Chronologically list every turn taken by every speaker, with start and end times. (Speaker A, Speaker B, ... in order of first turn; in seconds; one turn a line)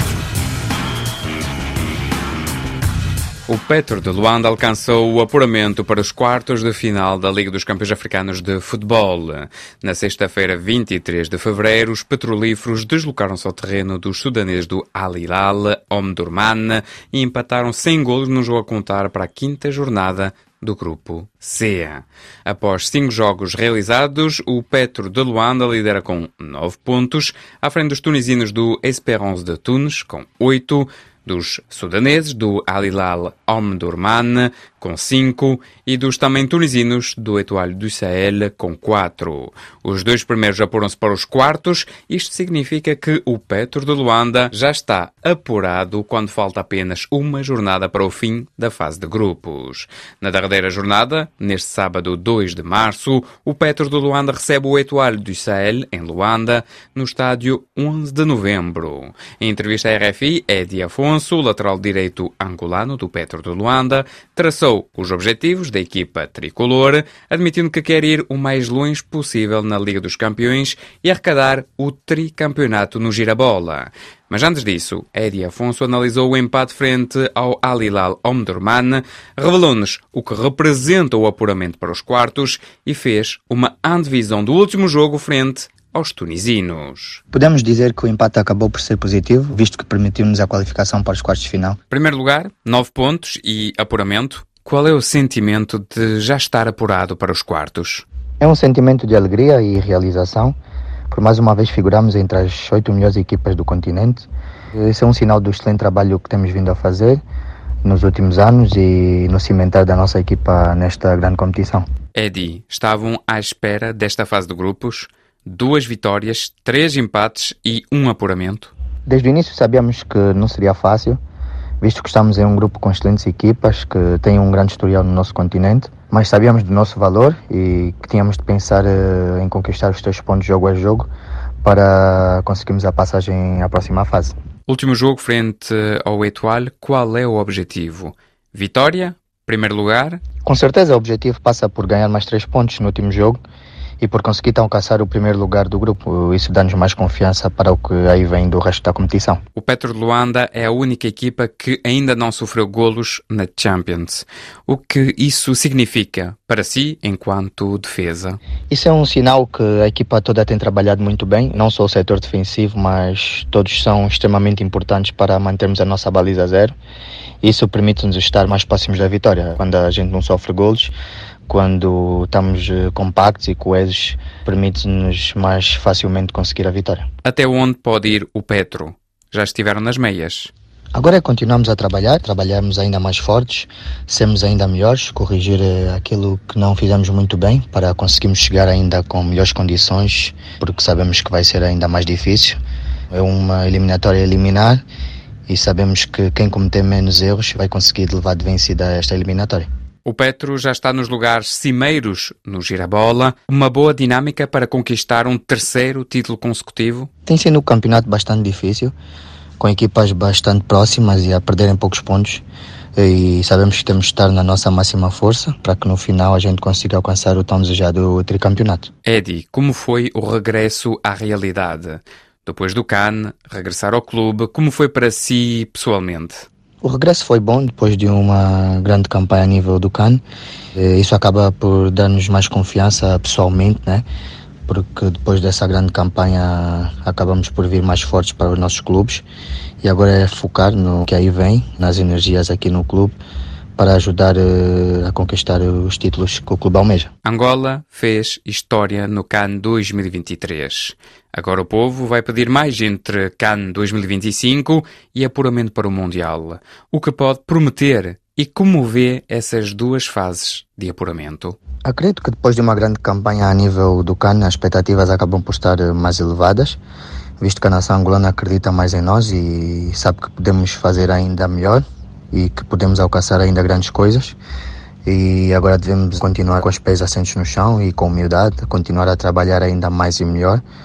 Speaker A: 3.5-87.2
Speaker B: 87.3-91.8
Speaker A: 91.9-98.0
Speaker B: 98.4-100.6
Speaker B: 101.1-107.2
Speaker B: 107.8-111.9
Speaker A: 112.2-118.7
Speaker B: 119.1-121.2
Speaker B: 121.8-131.1
Speaker B: 131.6-134.3
Speaker A: 134.7-140.2
Speaker B: 140.4-143.4
Speaker B: 144.0-149.4
Speaker A: 149.6-158.4
Speaker B: 158.7-166.7
Speaker B: 167.4-170.9
Speaker B: 171.5-177.1
Speaker A: 177.2-180.5
Speaker B: 180.9-192.6
Speaker B: 193.1-194.8
Speaker B: 195.5-199.7
Speaker A: 200.1-207.1
Speaker B: 207.3-208.9
Speaker B: 209.6-212.4
Speaker B: 213.0-218.9
Speaker A: 219.1-226.5
Speaker B: 226.8-230.2
Speaker B: 230.8-234.1
Speaker B: 234.7-239.2
Speaker B: 239.8-243.2
Speaker B: 243.8-247.1
Speaker A: 247.2-261.6
Speaker B: 261.9-266.8
Speaker B: 267.4-274.4
Speaker B: 275.1-280.6